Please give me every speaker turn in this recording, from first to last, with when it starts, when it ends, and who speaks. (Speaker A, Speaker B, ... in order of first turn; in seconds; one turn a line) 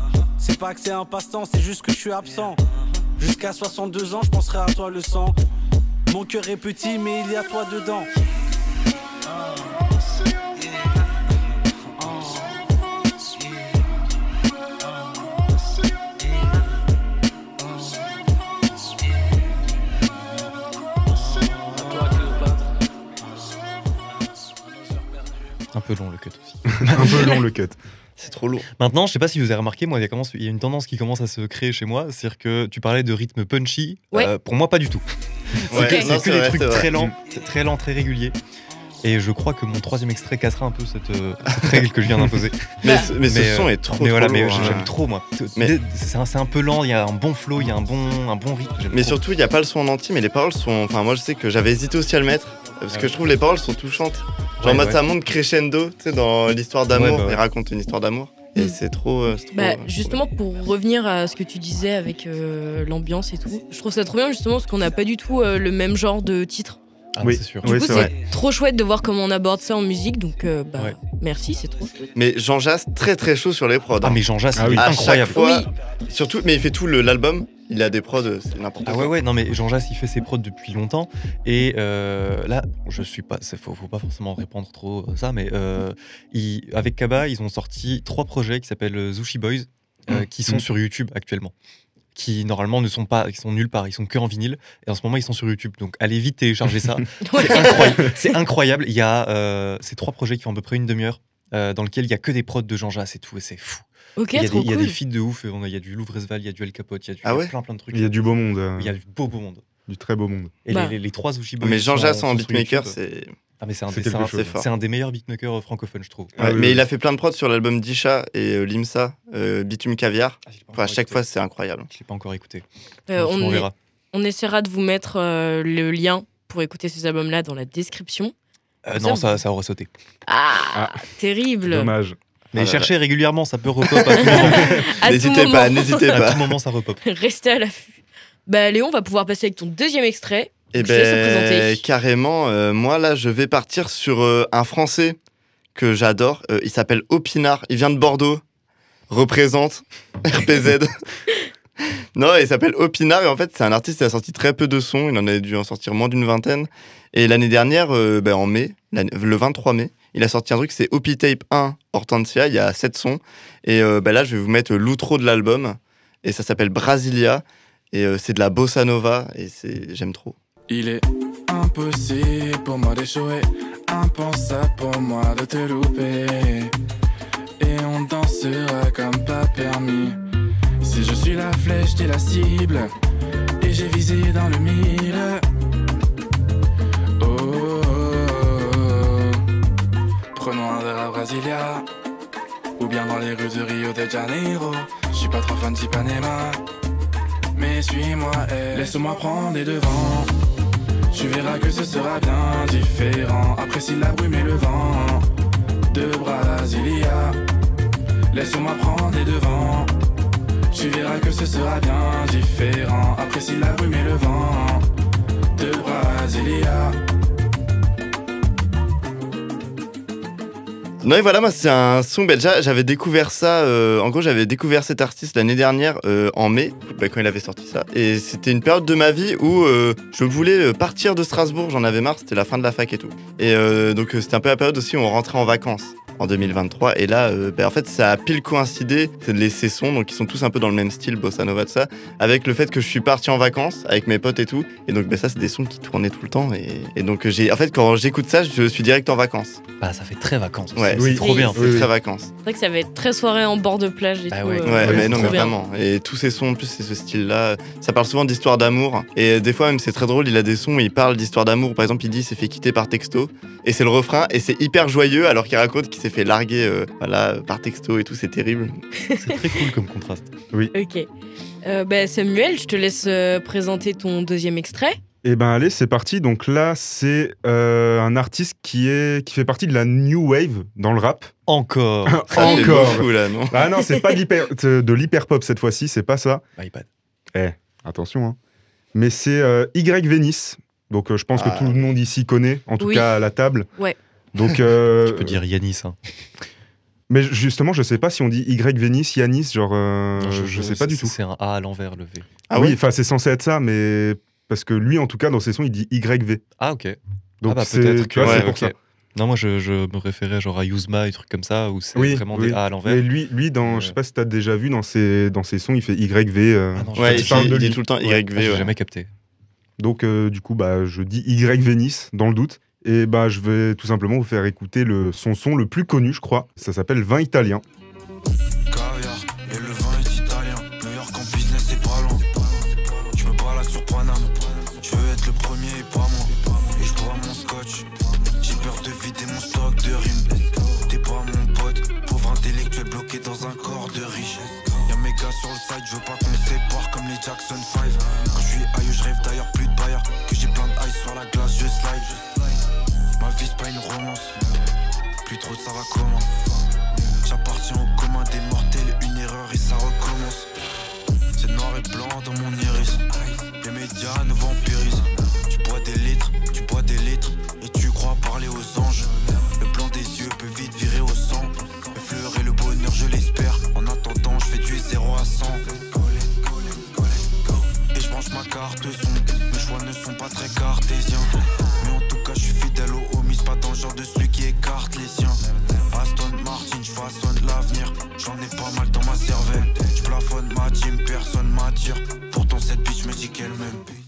Speaker A: 0.4-2.6
Speaker A: 3.2-5.4
Speaker A: 6.1-8.1
Speaker B: 25.7-27.4
Speaker C: 26.8-27.8
Speaker D: 28.2-28.7
Speaker B: 28.8-35.0
Speaker B: 35.5-38.4
Speaker D: 35.7-36.9
Speaker E: 35.7-36.1
Speaker B: 39.0-49.2
Speaker D: 42.8-44.9
Speaker D: 48.9-60.2
Speaker B: 52.9-53.2
Speaker B: 54.6-55.0
Speaker B: 56.9-57.4
Speaker E: 59.5-66.8
Speaker B: 67.2-68.1
Speaker C: 67.2-68.1
Speaker E: 67.6-72.1
Speaker D: 72.2-74.2
Speaker B: 74.0-75.5
Speaker C: 74.6-74.9
Speaker D: 74.8-79.2
Speaker E: 75.3-75.7
Speaker B: 78.8-91.5
Speaker C: 90.1-90.6
Speaker B: 92.2-109.6
Speaker E: 97.2-98.3
Speaker E: 104.2-105.0
Speaker D: 107.2-107.5
Speaker C: 107.9-108.9
Speaker C: 109.9-110.6
Speaker B: 110.7-113.0
Speaker E: 110.7-111.0
Speaker D: 111.6-113.3
Speaker B: 113.6-116.4
Speaker C: 113.9-114.5
Speaker D: 114.3-114.7
Speaker C: 116.4-116.8
Speaker D: 116.4-121.9
Speaker B: 120.5-121.2
Speaker B: 121.9-123.7
Speaker E: 123.1-128.3
Speaker B: 128.8-129.9
Speaker E: 128.9-129.4
Speaker E: 130.3-131.9
Speaker C: 130.7-131.0
Speaker C: 131.7-132.2
Speaker B: 132.5-134.8
Speaker D: 132.5-132.9
Speaker D: 134.0-136.5
Speaker E: 134.3-136.2
Speaker B: 136.1-137.0
Speaker E: 137.0-141.8
Speaker D: 140.7-145.2
Speaker D: 145.8-148.4
Speaker D: 149.1-150.9
Speaker D: 152.2-170.4
Speaker F: 170.7-176.7
Speaker F: 177.6-180.2
Speaker F: 180.8-182.9
Speaker F: 183.6-185.4
Speaker F: 187.2-189.4
Speaker F: 190.3-191.9
Speaker F: 192.8-196.6
Speaker F: 197.6-200.3
Speaker F: 201.1-205.3
Speaker F: 205.9-207.4
Speaker F: 208.3-209.9
Speaker F: 210.7-214.8
Speaker F: 215.6-217.0
Speaker D: 221.0-249.6
Speaker B: 249.8-251.8
Speaker D: 250.8-252.3
Speaker C: 250.9-251.9
Speaker E: 251.2-251.5
Speaker E: 252.4-255.5
Speaker B: 254.3-255.4
Speaker D: 254.7-268.8
Speaker C: 254.8-255.3
Speaker E: 269.1-269.4
Speaker B: 269.2-270.3
Speaker E: 270.7-271.1
Speaker E: 271.6-275.0
Speaker C: 275.2-281.3
Speaker B: 281.5-282.9
Speaker C: 282.1-286.4
Speaker D: 282.3-283.6
Speaker B: 286.6-286.9
Speaker C: 287.3-288.4
Speaker C: 288.9-293.7
Speaker D: 291.4-291.8
Speaker E: 292.8-293.1
Speaker C: 294.3-295.4
Speaker B: 295.1-296.0
Speaker C: 297.1-301.1
Speaker B: 300.2-302.3
Speaker D: 302.5-302.8
Speaker C: 302.5-306.4
Speaker B: 306.6-313.0
Speaker C: 307.4-308.7
Speaker D: 308.2-308.5
Speaker C: 311.9-318.1
Speaker B: 313.6-313.9
Speaker B: 316.7-319.1
Speaker D: 317.0-318.7
Speaker C: 319.8-327.6
Speaker G: 328.7-352.3
Speaker G: 353.2-354.4
Speaker G: 355.2-356.3
Speaker G: 357.2-360.5
Speaker G: 361.4-363.1
Speaker G: 363.6-394.0